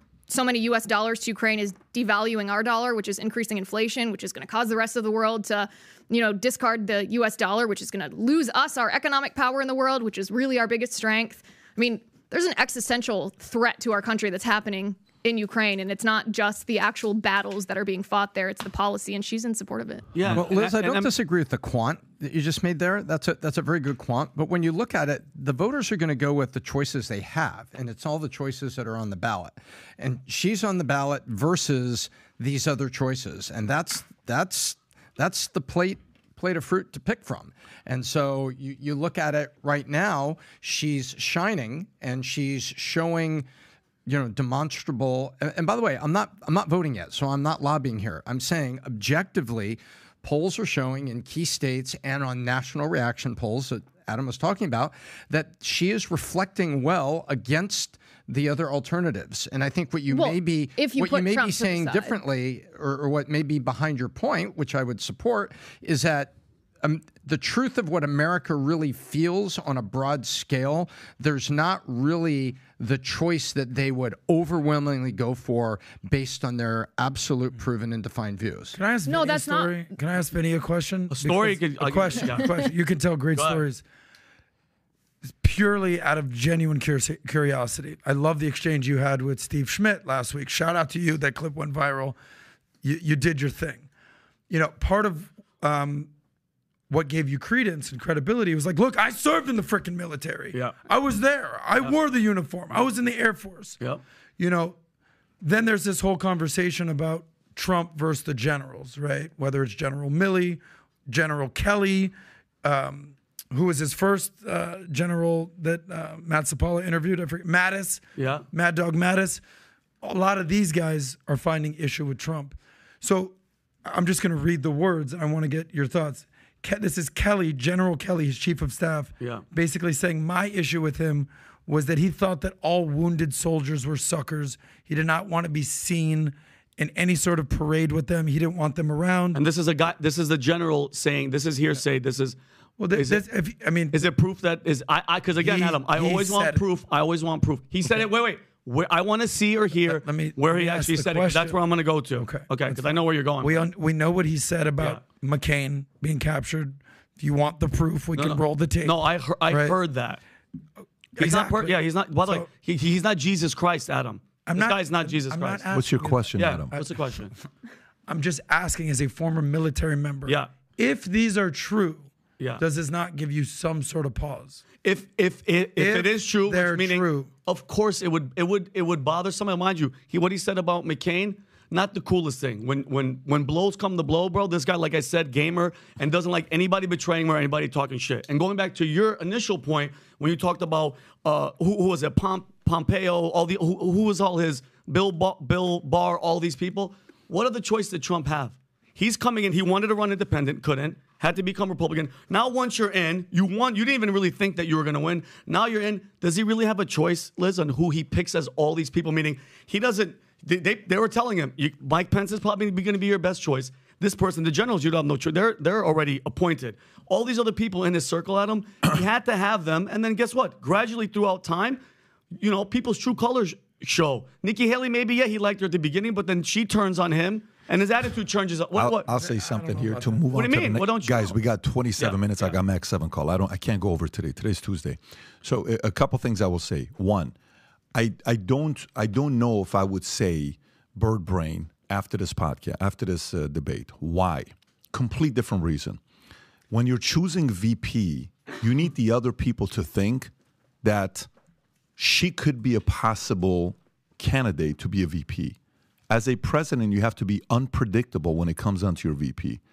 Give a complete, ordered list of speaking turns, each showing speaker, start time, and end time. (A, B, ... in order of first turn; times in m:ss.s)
0:00.3-0:20.1 A
0:20.1-0:21.1 B
0:20.3-0:43.4 C
0:44.0-1:18.8 C
1:00.1-1:02.1 A
1:18.7-1:23.8 D
1:19.0-1:19.8 A
1:21.1-1:22.7 B
1:23.3-1:23.6 B
1:25.4-1:32.2 D
1:32.8-1:33.8 D
1:34.5-1:36.1 D
1:36.9-1:43.8 D
1:44.4-1:44.8 D
1:45.4-1:59.4 D
1:58.2-1:58.4 B
2:00.0-2:03.3 D
2:03.8-2:19.4 D
2:19.3-2:22.4 B
2:22.8-2:24.0 D
2:22.9-2:23.2 B
2:23.9-2:33.7 B
2:25.4-2:26.6 D
2:29.8-2:31.6 D
2:32.2-2:39.8 D
2:38.1-2:40.2 B
2:41.2-2:42.4 D
2:41.2-2:45.7 B
2:44.4-2:47.0 D
2:45.7-2:46.7 E
2:46.3-2:47.3 B
2:48.1-2:54.6 D
2:54.8-3:41.8 B
2:55.8-2:57.3 D
3:42.4-3:49.1 B
3:48.8-3:57.3 E
3:49.1-3:50.2 D
3:50.3-3:51.4 B
3:52.0-3:52.5 B
3:57.9-4:06.0 E
4:06.7-4:10.3 E
4:10.8-4:11.3 E
4:12.0-4:15.6 E
4:16.1-4:19.6 E